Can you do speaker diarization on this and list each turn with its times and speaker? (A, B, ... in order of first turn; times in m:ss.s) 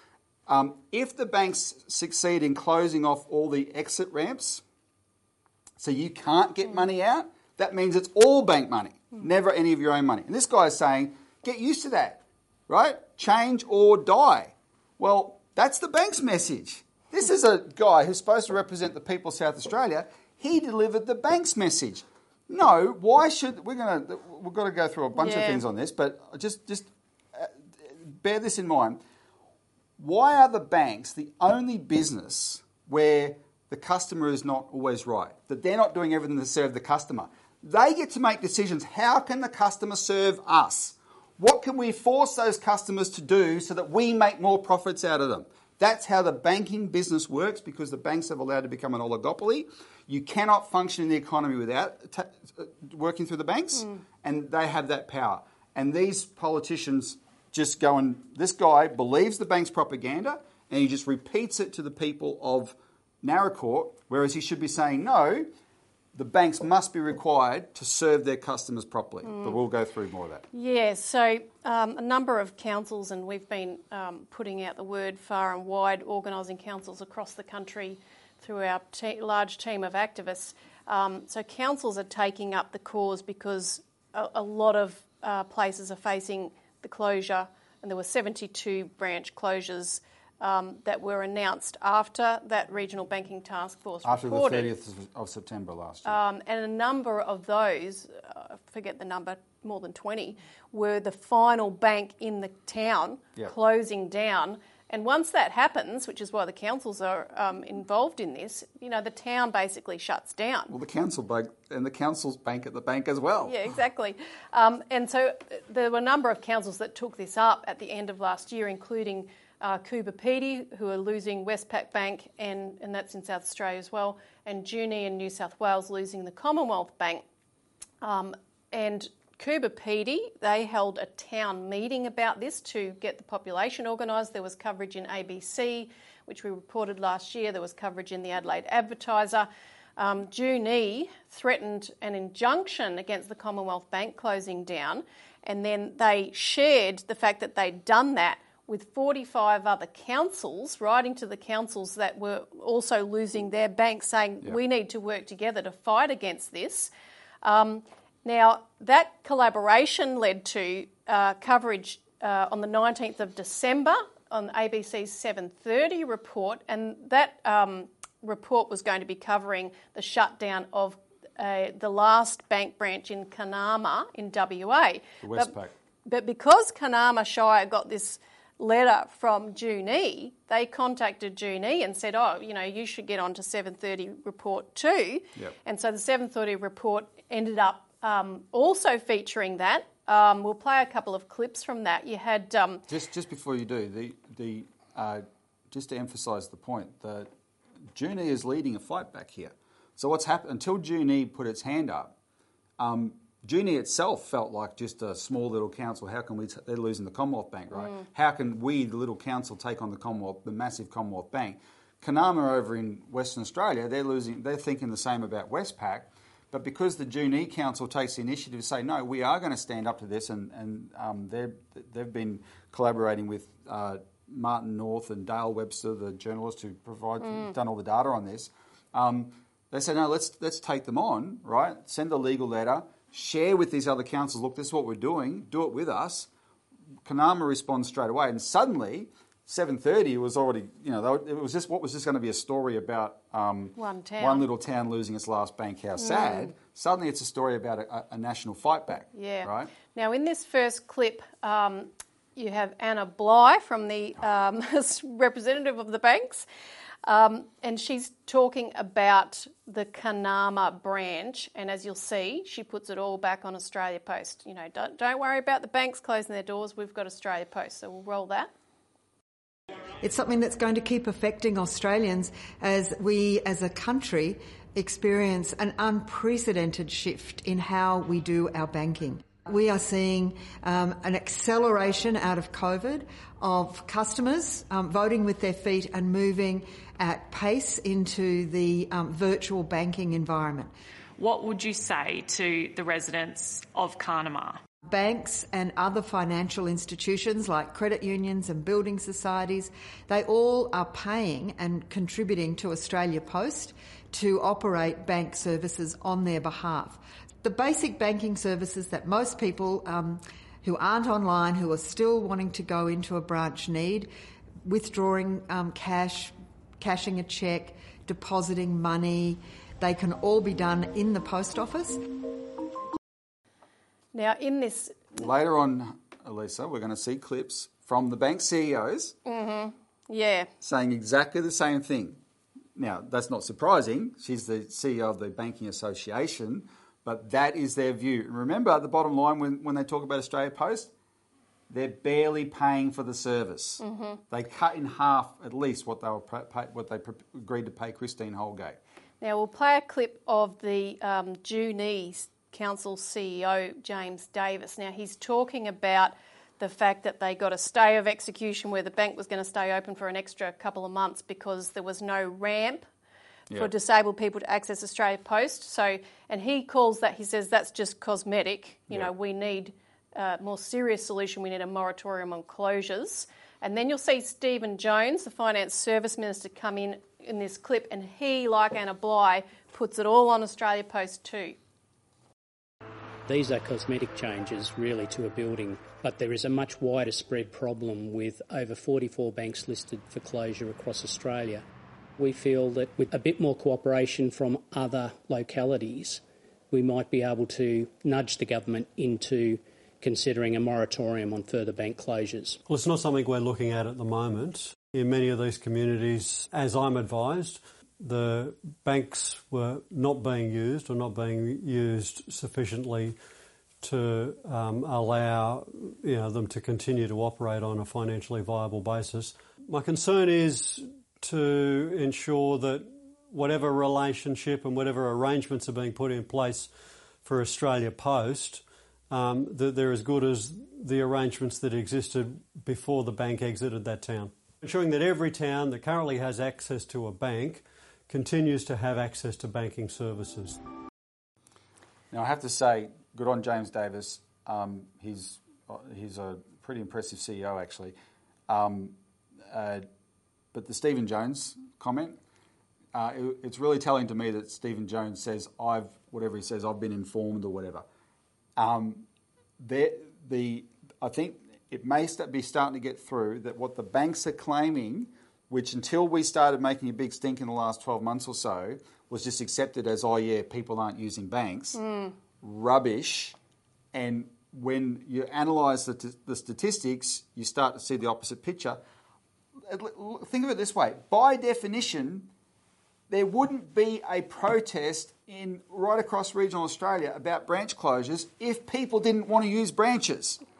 0:00.5-0:04.6 A
0:05.8-0:29.0 A
0:25.2-0:25.6 B
0:30.0-1:05.5 A
1:06.1-1:10.5 A
1:09.2-1:09.6 B
1:10.5-1:34.7 B
1:34.0-1:36.2 A
1:36.0-1:50.7 B
1:50.7-1:53.6 A
1:53.5-2:07.2 B
2:08.0-2:36.9 B
2:37.4-2:55.5 B
2:55.2-2:55.7 A
2:56.1-3:12.9 B
3:12.9-3:17.3 A
3:17.9-3:22.1 A
3:22.8-3:56.3 A
3:47.2-3:47.5 B
3:57.0-4:09.7 A
4:03.8-4:04.5 B
4:06.0-4:06.5 B
4:09.1-4:16.5 B
4:17.0-4:28.5 B
4:30.0-4:50.7 C
4:51.2-4:54.6 D
4:54.9-5:14.1 C
5:14.6-5:22.0 C
5:24.1-5:25.2 B
5:25.2-5:29.2 A
5:29.2-5:30.5 B
5:30.6-5:32.2 A
5:32.8-5:40.9 A
5:41.7-5:48.8 A
5:43.8-5:44.2 B
5:49.2-6:02.9 B
6:03.6-6:21.6 B
6:23.3-6:31.6 E
6:32.2-6:42.6 E
6:42.7-6:53.2 F
6:53.8-7:06.7 F
7:07.2-7:20.6 F
7:22.1-7:28.0 A
7:28.5-7:29.0 A
7:29.5-7:29.9 A
7:30.5-7:32.2 A
7:32.9-7:37.8 A
7:38.6-7:39.1 A
7:39.6-7:51.8 A
7:51.8-7:52.1 B
7:52.4-7:53.4 A
7:53.9-7:58.8 A
7:59.6-8:02.3 A
8:03.1-8:10.4 A